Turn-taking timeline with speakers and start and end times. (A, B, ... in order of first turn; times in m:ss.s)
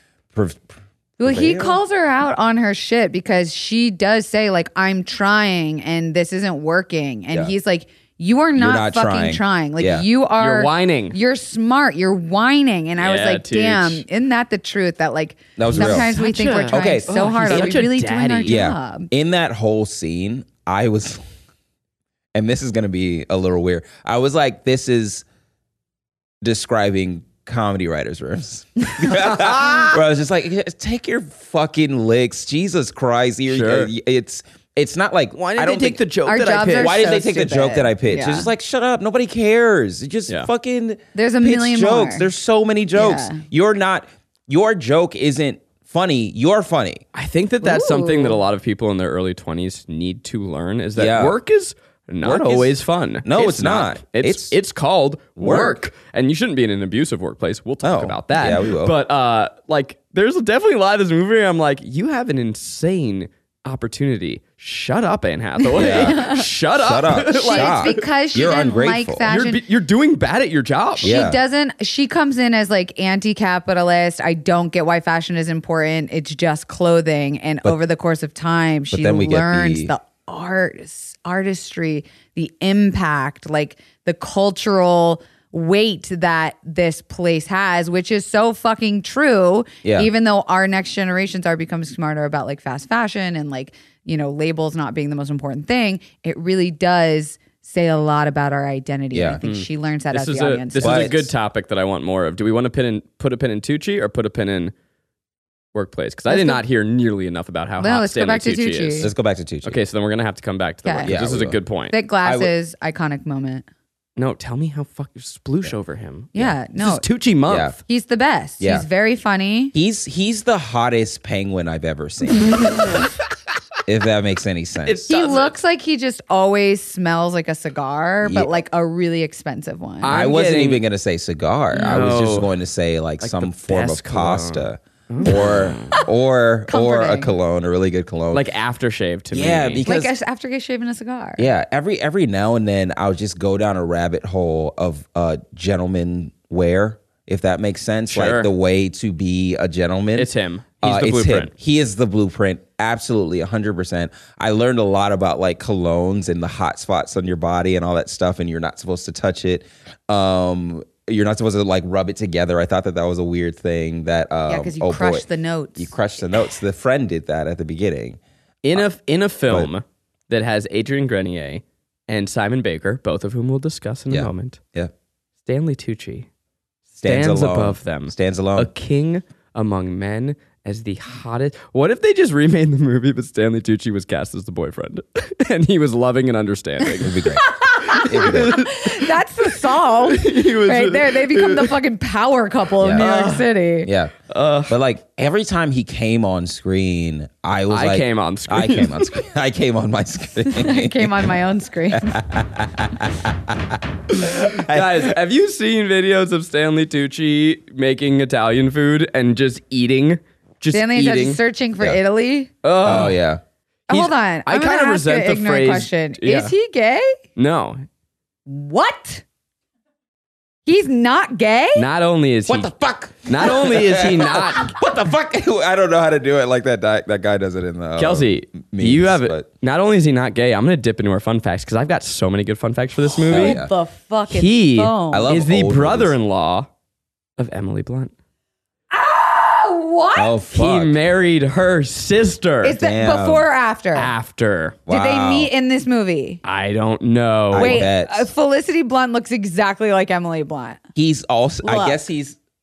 0:00.3-0:01.8 A
0:01.2-0:19.1 B
0:08.6-0:10.0 A
0:10.4-0:11.2 C
0:13.0-0:14.0 C
0:15.6-0:17.8 A
0:15.7-0:18.6 C
0:18.4-0:21.2 A
0:22.3-0:25.2 A
0:26.4-0:36.0 A
0:29.1-0:30.0 C
0:33.5-0:33.9 C
0:35.4-0:37.0 C
0:36.2-0:38.5 B
0:36.7-0:47.0 A
0:41.1-0:42.3 B
0:42.9-0:43.4 B
0:47.1-1:08.5 C
0:47.6-0:48.4 B
0:51.0-0:51.4 A
0:52.2-0:54.5 A
0:55.4-0:55.8 A
0:57.8-0:59.0 A
1:05.6-1:06.4 B
1:05.7-1:09.3 A
1:07.3-1:09.6 B
1:09.3-1:11.1 C
1:11.0-1:41.2 B
1:11.0-1:11.4 A
1:18.9-1:19.9 A
1:29.8-1:30.1 A
1:39.1-1:39.4 A
1:39.4-1:44.7 C
1:40.8-1:41.3 A
1:45.7-1:49.1 C
1:46.3-1:46.6 B
1:47.8-1:49.1 B
1:49.0-1:49.8 A
1:49.6-1:51.9 C
1:50.8-1:51.1 B
1:51.0-1:51.6 A
1:51.9-1:53.6 B
1:52.2-1:52.5 A
1:54.2-1:57.8 C
1:56.3-1:57.0 B
1:57.5-1:57.8 A
1:57.8-1:59.7 B
1:58.6-1:58.8 A
1:59.7-2:02.8 A
2:03.8-2:05.0 A
2:04.8-2:05.5 C
2:05.1-2:10.2 B
2:08.2-2:08.5 A
2:10.0-2:10.8 C
2:10.1-2:18.5 A
2:11.8-2:12.5 C
2:13.2-2:16.0 C
2:16.7-2:17.3 B
2:18.3-2:19.9 C
2:19.3-2:20.1 A
2:19.8-2:21.4 B
2:21.4-2:30.3 A
2:28.1-2:28.5 C
2:30.2-2:31.5 C
2:30.8-2:48.2 A
2:44.5-2:45.9 B
2:48.6-2:54.6 C
2:54.1-2:54.9 A
2:55.4-2:56.3 C
2:56.9-3:07.2 C
2:57.0-2:58.7 A
3:07.0-3:07.5 A
3:07.4-3:13.9 B
3:07.9-3:09.1 C
3:08.0-3:08.6 A
3:10.1-3:11.8 C
3:12.8-3:13.0 A
3:13.0-3:13.5 C
3:13.8-3:14.1 A
3:14.3-3:14.7 C
3:14.7-3:21.3 A
3:17.7-3:19.2 C
3:20.4-3:22.2 B
3:21.9-3:25.2 A
3:24.1-3:31.4 C
3:30.7-3:32.5 B
3:32.6-3:33.2 C
3:32.8-3:33.4 A
3:33.9-3:37.2 B
3:33.9-3:36.5 C
3:37.4-3:37.8 C
3:38.4-3:39.2 B
3:40.6-3:41.8 B
3:41.7-3:42.7 C
3:42.5-3:49.4 A
3:43.2-3:44.7 C
3:48.0-3:53.6 C
3:53.2-3:53.7 A
3:53.3-3:55.3 B
3:54.3-3:56.7 C
3:55.1-3:56.2 A
3:57.4-3:58.1 C
3:58.9-4:00.3 B
4:00.2-4:01.0 A
4:00.5-4:02.8 C
4:02.6-4:04.1 B
4:02.8-4:03.5 A
4:03.9-4:04.8 C
4:04.9-4:05.5 A
4:04.9-4:06.4 B
4:06.4-4:07.8 C
4:07.5-4:08.3 A
4:07.6-4:10.8 B
4:11.0-4:12.4 A
4:11.6-4:12.0 B